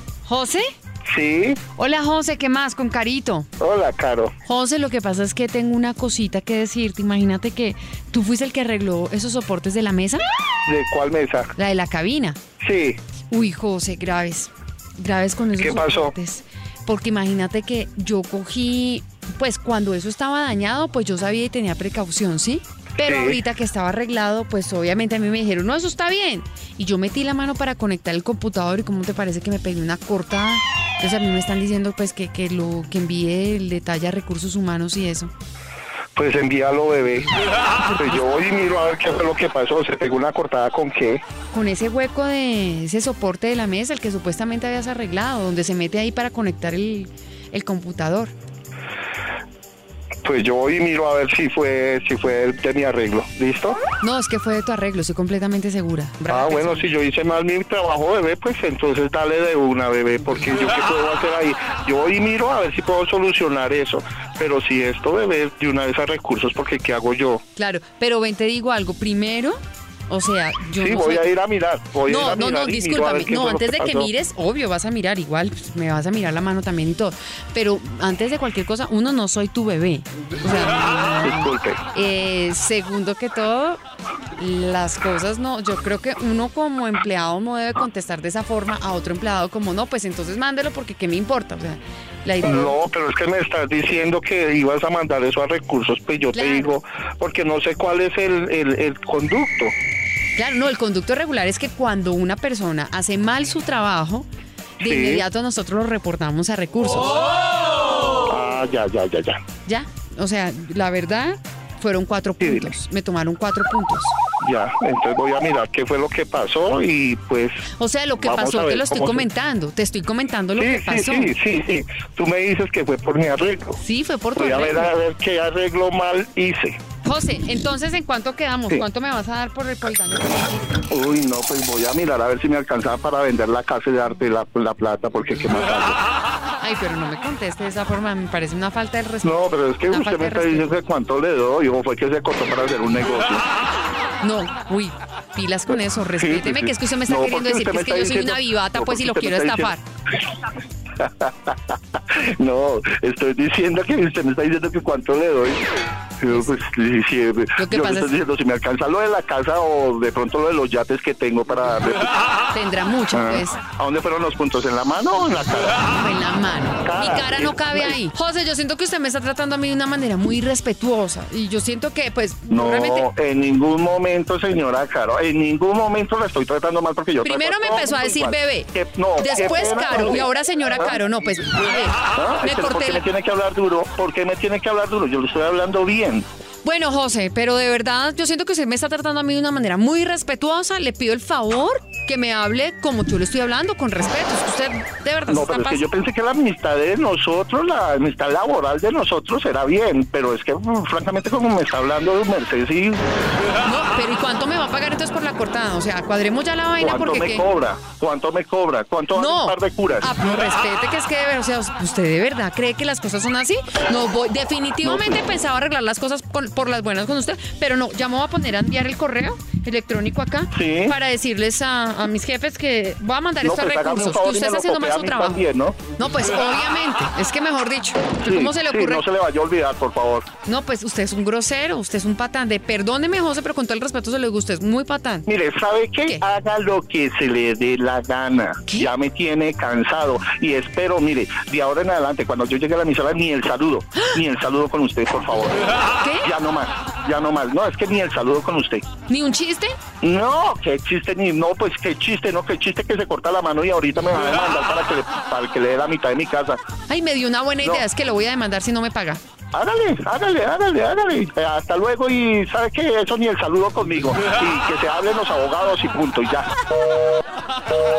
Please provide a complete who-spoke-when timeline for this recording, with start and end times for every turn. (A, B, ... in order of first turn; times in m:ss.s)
0:00.3-0:00.7 A
0:01.1-0:01.6 B
0:01.8-0:03.5 A
0:03.6-0:04.3 B
0:04.4-0:10.2 A
0:10.7-0:11.5 B
0:11.6-0:12.4 A
0:12.6-0:13.0 B
0:13.3-0:35.3 A
0:15.6-0:16.1 B
0:23.0-0:23.4 B
0:36.2-0:37.3 B
0:37.8-0:38.2 A
0:38.0-0:41.2 B
0:41.5-0:48.3 A
0:50.2-0:53.8 B
0:54.0-0:56.9 A
0:56.3-1:07.4 B
1:07.6-1:11.2 A
1:10.8-1:14.1 B
1:12.1-1:23.8 A
1:21.2-1:21.8 B
1:24.4-1:32.8 A
1:32.4-1:39.7 B
1:36.3-1:36.8 A
1:40.4-1:44.3 A
1:44.8-1:47.3 A
1:44.8-1:45.2 B
1:48.3-1:49.4 B
1:49.7-1:54.1 A
1:52.4-1:52.7 B
1:54.4-1:57.6 B
1:57.8-2:01.3 A
1:58.2-1:59.2 B
2:00.6-2:03.8 B
2:03.8-2:04.9 A
2:04.4-2:06.8 B
2:07.0-2:10.7 A
2:10.9-2:16.0 B
2:16.6-2:20.7 A
2:19.2-2:23.4 B
2:24.2-2:29.8 A
2:26.2-2:29.7 B
2:31.0-2:35.6 B
2:36.2-2:42.1 B
2:37.6-2:38.1 A
2:42.5-2:43.6 A
2:43.1-2:45.9 B
2:45.9-2:53.1 A
2:46.8-2:48.0 B
2:52.5-3:01.0 B
2:57.2-3:03.0 A
3:02.2-3:06.2 B
3:06.6-3:15.8 A
3:15.3-3:23.0 B
3:23.6-3:27.5 A
3:26.8-3:30.1 B
3:29.2-3:49.0 A
3:34.8-3:35.3 B
3:40.5-3:41.0 B
3:43.4-3:45.8 B
3:48.2-3:50.3 B
3:50.4-3:55.3 A
3:55.3-4:05.7 B
4:06.0-4:06.3 A
4:06.2-4:08.8 B
4:09.1-4:09.8 A
4:10.0-4:16.6 B
4:16.9-4:19.2 A
4:19.5-4:26.5 B